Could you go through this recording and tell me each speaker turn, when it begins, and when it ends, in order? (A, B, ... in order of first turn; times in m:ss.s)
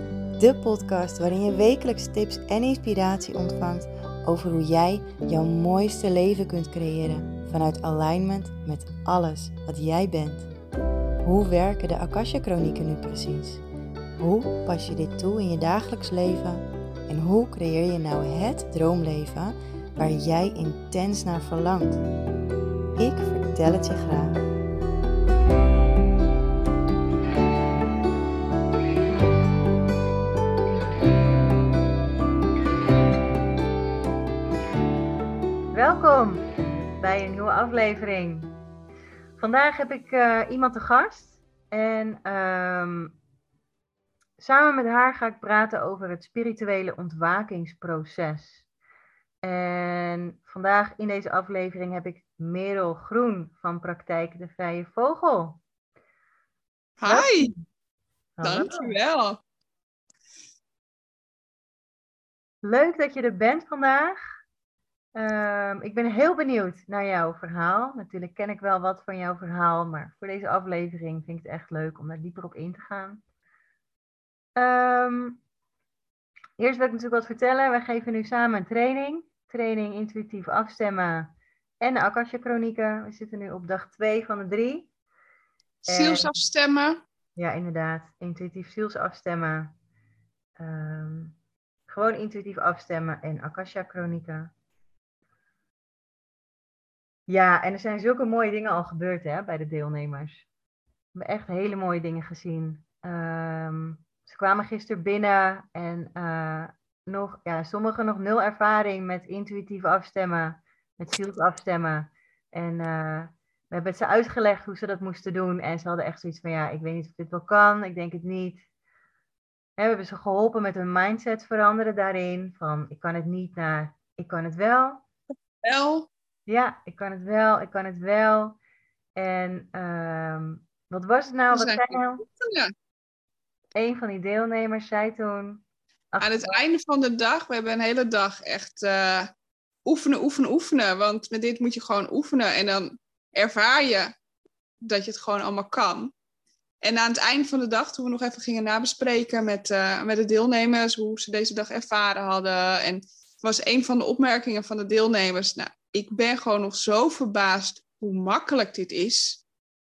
0:00.4-0:10.5 A
0:11.2-0:13.6 A
0:14.2-0:22.0 A
0:23.0-0:24.4 A
0:35.7-0:36.4 A
0:37.0-0:38.5 A
0:39.4-0:43.2 A
0:44.4-0:48.6 A
0:49.4-0:55.6 A
0:57.0-0:57.5 B
0:57.1-0:57.6 A
0:58.4-0:59.0 A
0:58.4-0:59.4 B
1:02.6-1:04.2 A
1:05.2-1:13.2 A
1:14.6-1:15.4 A
1:16.6-1:24.9 A
1:25.9-1:27.0 B
1:25.9-1:26.3 A
1:27.4-1:29.8 A
1:30.6-1:31.4 A
1:31.9-1:34.5 A
1:37.3-1:40.5 A
1:41.2-1:58.6 A
1:59.8-2:05.0 A
2:05.6-2:06.1 B
2:06.5-2:08.6 A
2:09.2-2:12.2 A
2:11.5-2:12.7 B
2:13.8-2:16.5 A
2:16.2-2:19.3 B
2:19.8-2:24.1 B
2:24.8-2:26.1 B
2:26.8-2:39.4 B